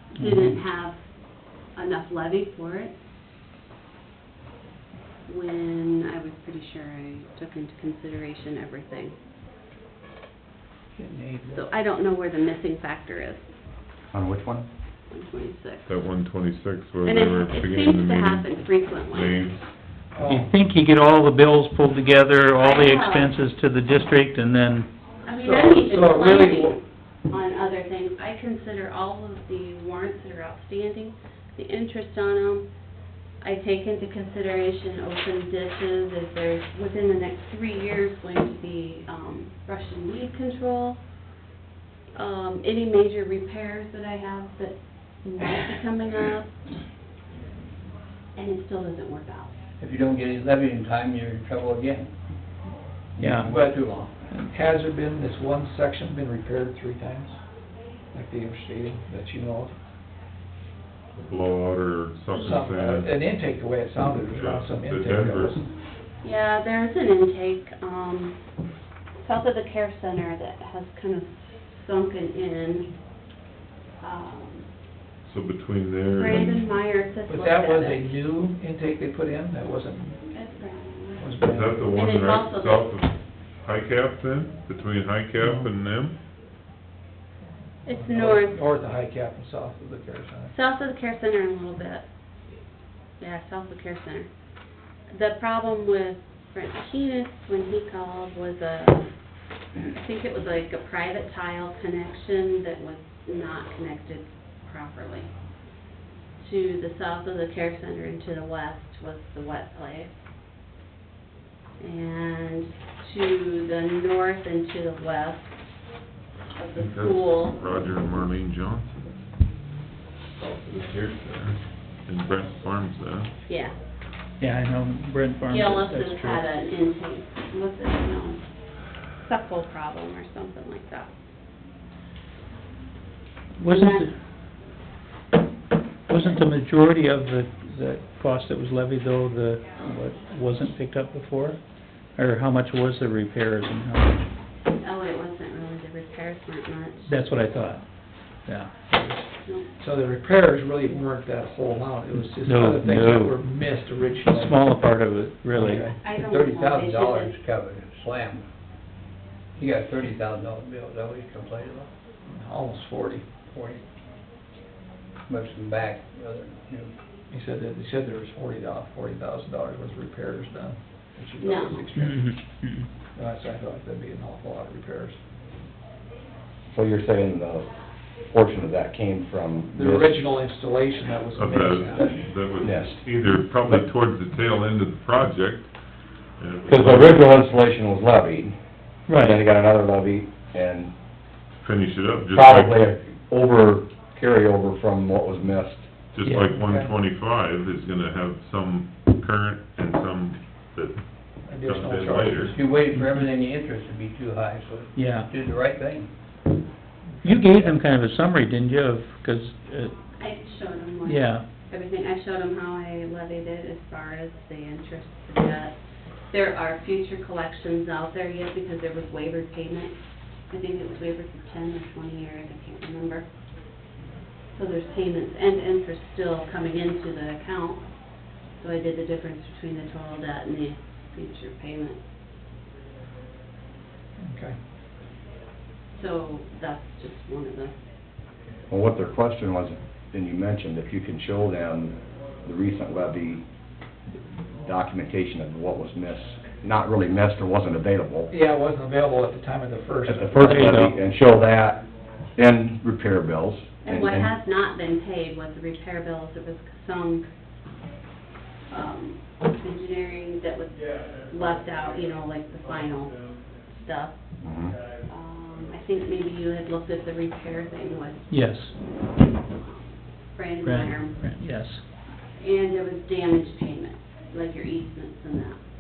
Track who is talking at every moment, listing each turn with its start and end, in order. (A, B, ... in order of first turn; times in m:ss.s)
0:00.2-0:00.6 A
0:00.2-0:00.9 B
0:01.8-0:02.9 B
0:05.3-0:09.1 B
0:11.0-0:11.7 C
0:11.5-0:13.4 B
0:14.1-0:14.7 D
0:15.1-0:15.9 B
0:15.9-0:18.5 E
0:17.1-0:19.3 B
0:19.1-0:19.6 E
0:20.2-0:20.5 C
0:20.3-0:24.9 A
0:22.6-0:23.3 B
0:25.3-0:32.6 B
0:25.4-0:26.7 C
0:33.4-0:41.0 B
0:42.2-0:46.6 B
0:48.4-0:49.6 B
0:49.8-0:52.1 F
0:53.2-0:54.1 F
0:53.2-0:53.5 A
0:53.5-0:57.4 C
0:58.1-0:59.8 C
1:01.2-1:03.1 E
1:02.3-1:05.7 C
1:04.2-1:05.6 E
1:06.2-1:08.3 B
1:09.2-1:12.8 B
1:14.0-1:14.6 B
1:15.2-1:16.7 E
1:16.2-1:18.1 B
1:17.3-1:20.2 C
1:20.3-1:21.3 B
1:21.2-1:22.0 C
1:21.4-1:26.2 E
1:21.9-1:22.9 B
1:25.4-1:25.7 C
1:27.9-1:30.5 C
1:27.9-1:28.5 B
1:30.5-1:32.0 B
1:33.2-1:34.3 B
1:35.1-1:39.0 B
1:39.9-1:45.3 B
1:46.4-1:50.1 B
1:51.8-1:55.3 B
1:56.6-1:57.6 B
1:56.8-1:59.1 E
2:00.4-2:03.3 E
2:03.5-2:03.7 B
2:04.4-2:06.4 A
2:05.5-2:08.4 B
2:09.3-2:11.1 B
2:13.6-2:14.1 A
2:13.6-2:14.1 B
2:16.1-2:21.6 A
2:22.2-2:24.2 A
2:24.8-2:27.1 B
2:27.1-2:27.8 A
2:28.5-2:28.7 A
2:28.9-2:29.2 C
2:29.8-2:34.8 C
2:32.4-2:33.5 A
2:34.2-2:35.9 A
2:35.5-2:36.0 C
2:36.0-2:37.3 B
2:36.0-2:38.5 F
2:39.6-2:41.9 F
2:42.2-2:43.3 C
2:43.5-2:43.8 F
2:45.3-2:46.9 F
2:47.3-2:52.4 C
2:51.4-2:51.8 B
2:52.0-2:52.9 A
2:53.2-2:55.2 C
2:56.7-2:57.7 D
2:58.3-3:00.2 D
2:59.7-3:02.2 C
3:01.4-3:05.7 E
3:02.6-3:03.0 D
3:06.4-3:07.2 E
3:06.7-3:08.6 D
3:09.1-3:09.4 A
3:09.2-3:10.9 D
3:11.6-3:12.8 E
3:12.3-3:15.9 D
3:16.2-3:22.6 E
3:16.2-3:16.6 A
3:16.6-3:16.9 C
3:21.5-3:22.6 C
3:22.4-3:26.1 F
3:25.0-3:25.3 A
3:27.1-3:27.5 C
3:27.2-3:30.0 A
3:30.2-3:35.8 B
3:31.0-3:31.4 A
3:36.3-3:39.9 B
3:40.5-3:43.2 B
3:44.6-3:47.8 B
3:48.6-3:52.0 B
3:54.2-3:54.6 C
3:56.0-3:57.7 B
3:58.7-4:03.4 D
4:04.6-4:08.3 D
4:08.3-4:10.8 C
4:10.1-4:11.8 D
4:10.4-4:11.0 A
4:12.4-4:14.3 D
4:13.8-4:17.2 B
4:18.7-4:24.1 B
4:24.4-4:24.8 D
4:25.1-4:28.2 B
4:28.3-4:28.7 A
4:29.5-4:29.8 B
4:30.3-4:31.3 B
4:30.6-4:31.8 A
4:32.4-4:35.6 B